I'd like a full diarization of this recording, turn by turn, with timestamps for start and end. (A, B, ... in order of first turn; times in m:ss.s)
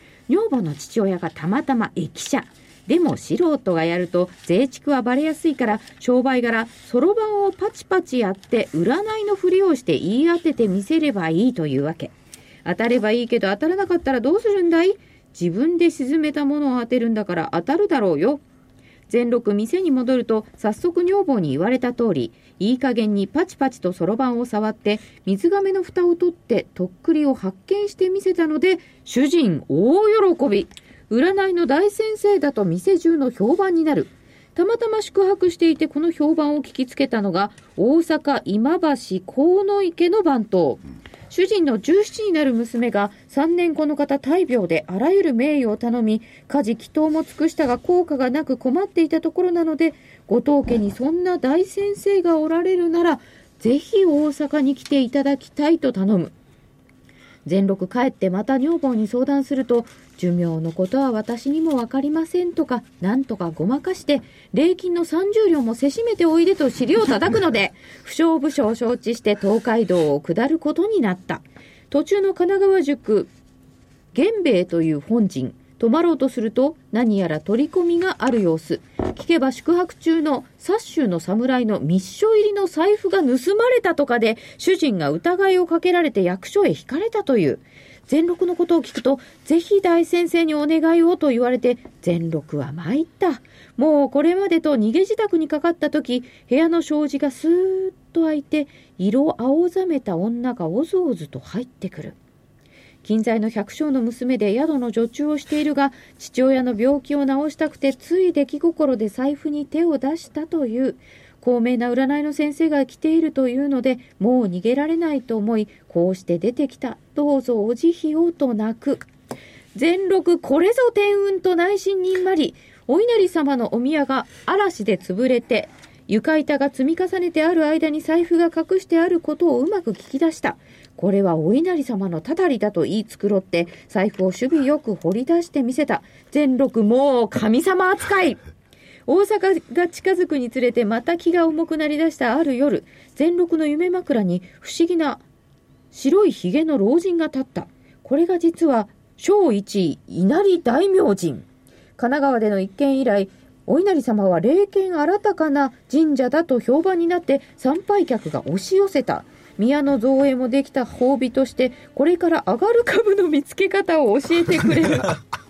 0:00.3-0:18.4 A
0:19.1-0:56.3 A
0:57.4-1:13.3 A
1:14.1-1:42.2 A
1:43.0-1:59.1 A
1:59.7-2:18.4 A
2:19.0-2:25.2 A
2:25.9-2:45.2 A